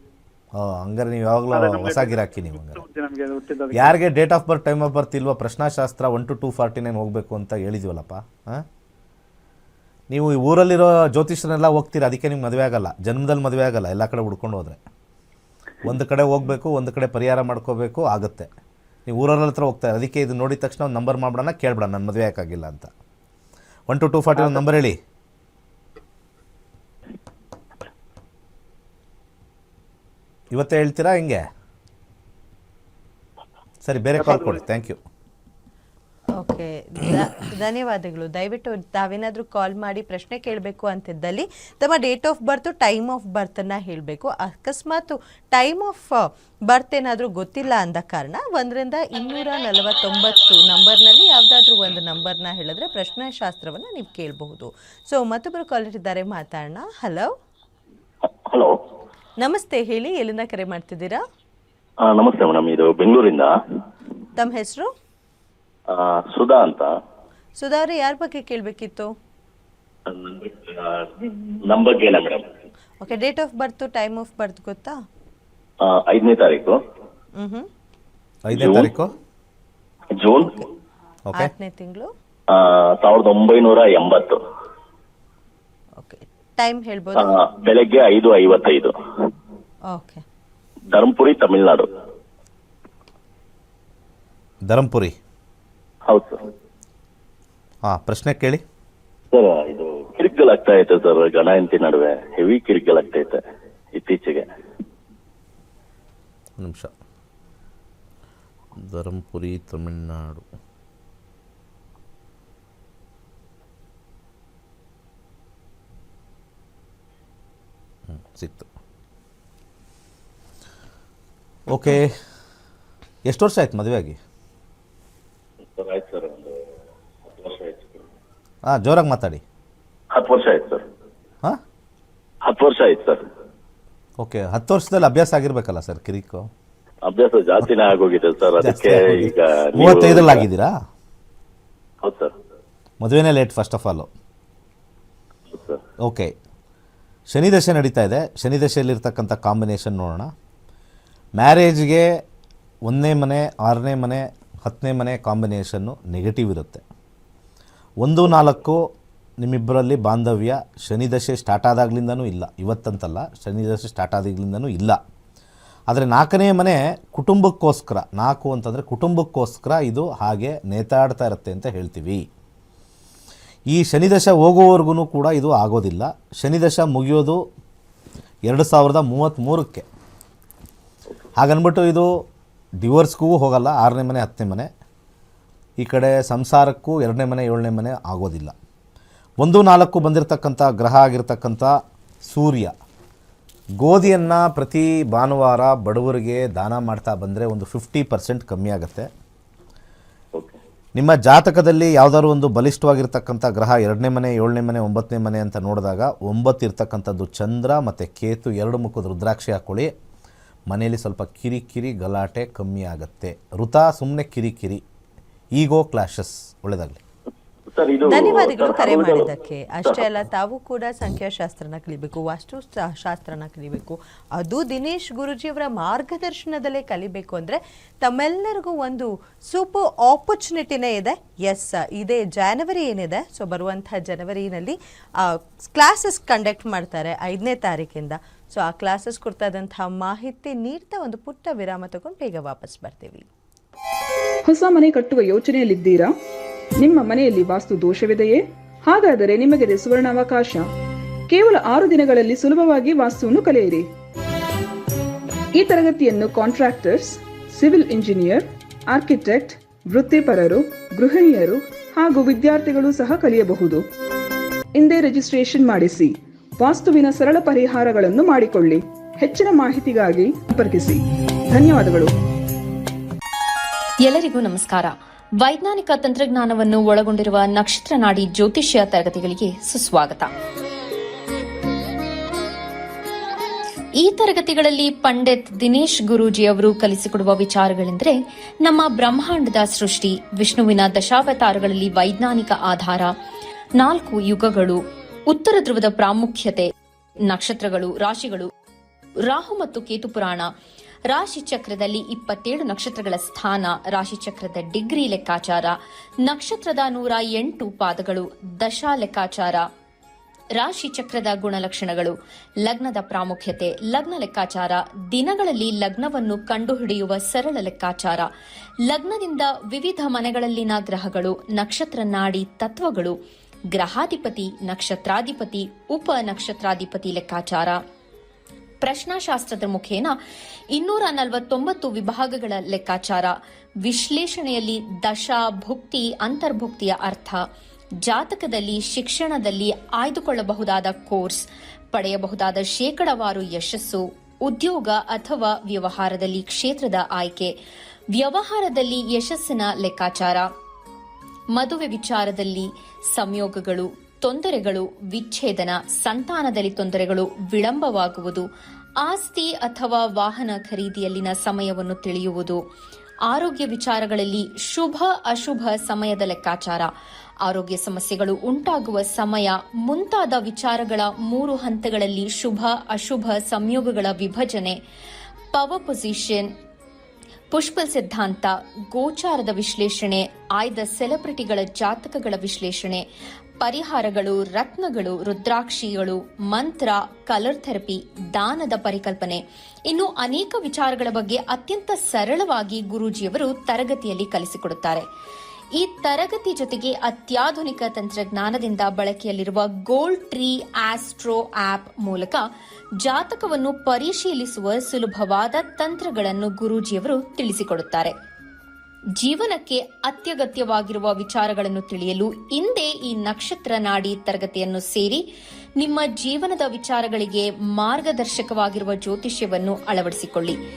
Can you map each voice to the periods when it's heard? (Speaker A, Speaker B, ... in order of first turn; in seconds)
Speaker A: 0.6-2.8, 3.7-8.6, 10.1-14.8, 15.8-18.5, 19.1-22.9, 23.9-25.0, 30.5-31.4, 33.8-35.0, 78.5-79.1, 94.7-95.2, 97.9-98.6, 106.6-106.9, 108.8-110.4, 118.1-118.7, 121.7-122.1, 123.3-124.2, 128.7-129.4, 134.2-136.5, 138.6-140.7, 143.0-144.1, 146.0-146.3, 147.3-150.3, 151.4-152.1, 152.9-156.8, 158.0-158.8, 159.4-165.0, 165.9-172.2, 173.7-177.4, 178.5-179.8, 181.4-182.1, 182.8-184.7, 185.8-188.5, 189.4-191.7, 192.2-192.7, 193.8-199.1, 201.0-209.9, 210.7-214.8, 215.6-217.0
Speaker B: 1.5-4.0, 34.2-34.6
Speaker C: 36.4-57.3, 59.4-61.2, 64.4-64.9, 67.6-69.1, 73.0-75.0, 77.4-77.7, 81.4-82.1, 86.0-87.4, 89.9-90.2, 218.0-243.3
Speaker D: 62.0-63.5, 65.9-66.9, 70.1-71.0, 71.7-72.5, 75.8-76.7, 78.5-78.9, 80.2-80.7, 82.5-84.4, 87.2-88.9, 90.9-91.9, 96.1-96.5, 99.3-103.4, 103.9-104.5, 125.8-126.5, 127.3-128.0, 130.1-130.8, 132.4-133.2, 137.0-140.4, 142.0-142.3, 145.5-145.8, 217.7-219.3
Speaker E: 244.5-246.1, 246.8-250.7, 251.3-253.9, 255.5-263.8, 264.8-272.1
Speaker F: 274.1-280.3, 284.0-293.1, 293.8-294.8, 295.3-296.7, 297.3-298.5, 299.3-300.5, 301.1-309.7, 310.6-318.3, 318.9-323.1, 323.7-327.8, 328.8-330.1, 330.8-337.4, 338.0-347.5, 348.1-350.5, 351.6-358.4, 359.0-362.6, 363.3-366.9, 367.4-374.8, 375.5-376.5, 377.5-383.0, 383.6-395.1, 395.8-402.4, 403.0-408.1, 409.2-415.2, 415.8-420.6